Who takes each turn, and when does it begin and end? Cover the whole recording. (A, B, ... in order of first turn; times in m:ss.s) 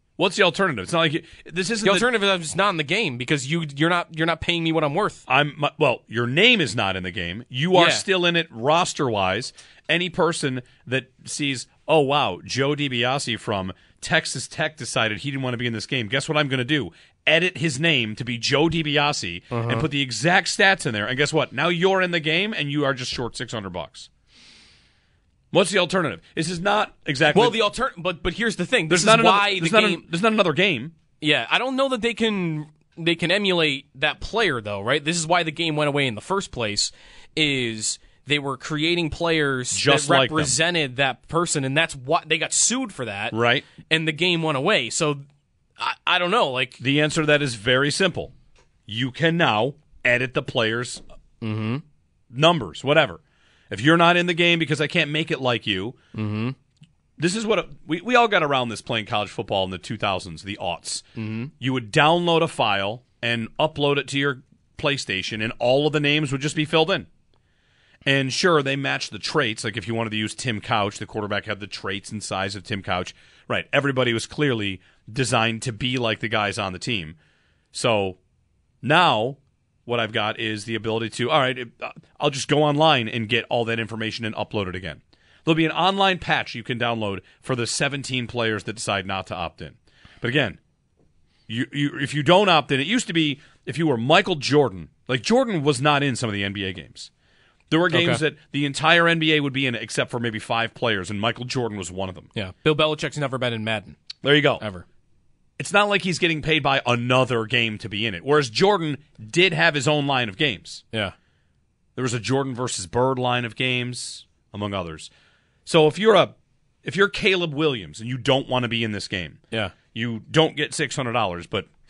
0:00.2-0:02.1 A
0:01.8-0:05.2 B
0:05.3-0:24.1 A
0:07.7-0:08.0 B
0:19.5-0:19.9 B
0:25.5-0:27.6 A
0:27.3-0:30.0 B
0:28.9-0:30.9 A
0:31.2-0:45.2 B
0:39.7-0:40.6 A
0:43.3-0:43.7 A
0:45.8-0:46.8 B
0:46.8-0:48.3 A
0:48.9-0:51.0 A
0:51.4-0:51.8 B
0:52.3-0:56.0 A
0:56.1-0:56.6 B
0:57.2-1:01.1 A
1:01.2-1:01.5 B
1:01.6-1:07.1 A
1:08.0-1:17.2 A
1:17.7-1:18.2 A
1:18.8-1:30.6 A
1:31.5-1:37.1 A
1:37.7-1:42.3 A
1:37.9-1:38.2 B
1:42.4-1:44.0 B
1:44.2-1:44.6 A
1:44.6-1:44.8 B
1:45.6-1:50.8 A
1:52.0-1:55.1 A
1:55.7-1:59.4 A
1:59.9-2:01.7 A